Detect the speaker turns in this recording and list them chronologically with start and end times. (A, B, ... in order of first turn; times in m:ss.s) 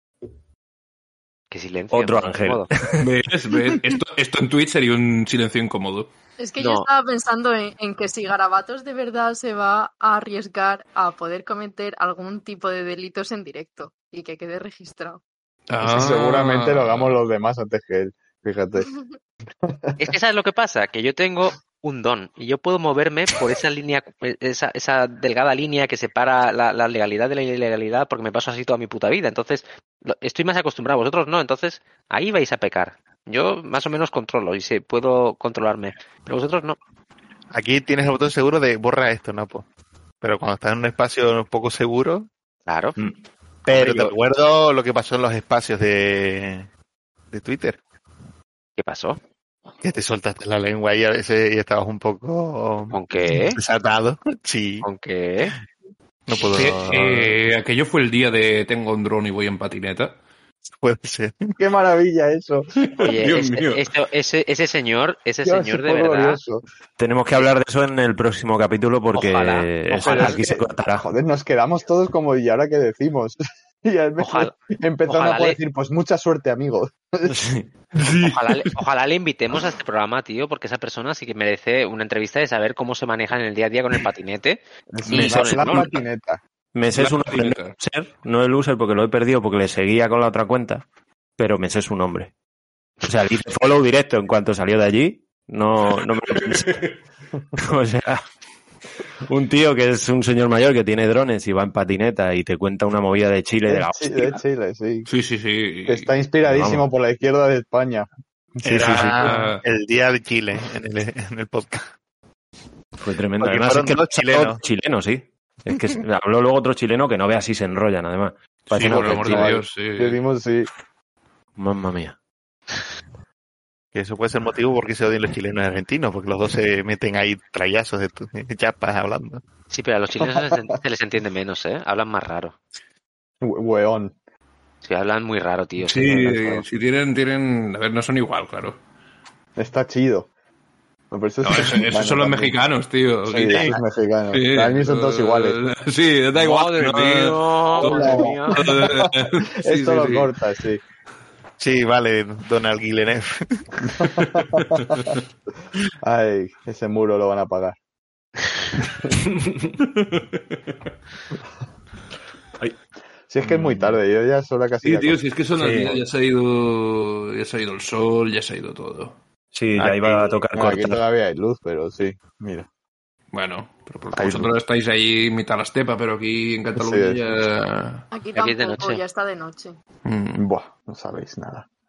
0:01.5-0:02.7 A
0:01.9-0:03.0 B
0:03.0-0:06.1 C
0:06.4-0:15.2 D
0:06.6-0:06.9 A
0:15.7-0:17.2 C
0:15.8-0:18.9 E
0:18.8-0:19.2 D
0:19.6-0:20.0 E
0:20.0-0:36.8 A
0:37.5-0:39.6 F
0:40.2-0:42.3 F
0:42.7-0:43.0 A
0:43.7-0:46.7 F
0:43.7-0:44.2 A
0:47.3-0:47.8 F
0:48.8-0:49.2 A
0:49.8-0:53.0 F
0:52.9-0:53.6 A
0:53.5-0:54.9 F
0:54.8-0:55.5 A
0:56.3-0:57.3 F
0:56.5-1:00.2 C
1:00.8-1:01.6 F
1:01.6-1:02.7 E
1:02.9-1:03.8 C
1:03.0-1:06.4 A
1:05.4-1:06.6 E
1:07.0-1:11.1 B
1:09.1-1:10.4 A
1:10.0-1:17.4 E
1:14.2-1:14.6 A
1:15.1-1:15.6 A
1:17.3-1:18.2 B
1:18.2-1:25.9 A
1:24.9-1:26.4 E
1:25.1-1:25.9 B
1:26.7-1:30.8 B
1:27.0-1:27.8 C
1:31.4-1:32.3 B
1:33.0-1:36.9 B
1:37.6-1:38.2 B
1:39.3-1:44.4 B
1:43.7-1:45.1 E
1:45.1-1:46.1 C
1:45.9-1:48.1 E
1:46.5-1:46.8 B
1:48.6-1:49.3 E
1:48.6-1:51.9 F
1:48.6-1:49.4 B
1:49.2-1:49.6 C
1:53.0-1:59.5 B
1:53.4-1:54.6 F
1:58.7-2:00.2 C
1:58.8-2:00.7 E
2:01.6-2:02.2 B
2:03.9-2:09.4 F
2:09.7-2:12.6 A
2:10.2-2:10.6 E
2:13.4-2:14.1 E
2:14.8-2:16.2 A
2:15.8-2:18.8 C
2:16.1-2:16.6 E
2:19.6-2:20.3 E
2:21.1-2:22.6 E
2:21.4-2:23.7 C
2:23.3-2:25.6 E
2:24.3-2:30.3 C
2:26.4-2:28.6 A
2:27.8-2:30.8 E
2:31.6-2:33.6 F
2:34.0-2:35.2 E
2:34.2-2:34.9 C
2:36.0-2:37.8 E
2:43.3-2:45.2 E
2:43.5-2:43.9 B
2:44.8-2:49.2 C
2:45.6-2:46.0 B
2:49.5-2:51.0 B
2:49.8-2:50.3 F
2:50.5-2:52.7 E
2:53.3-2:58.0 C
2:54.1-2:54.5 E
2:56.7-2:57.2 E
2:58.1-2:59.7 D
2:58.4-2:59.0 A
3:00.0-3:00.4 C
3:00.4-3:01.7 E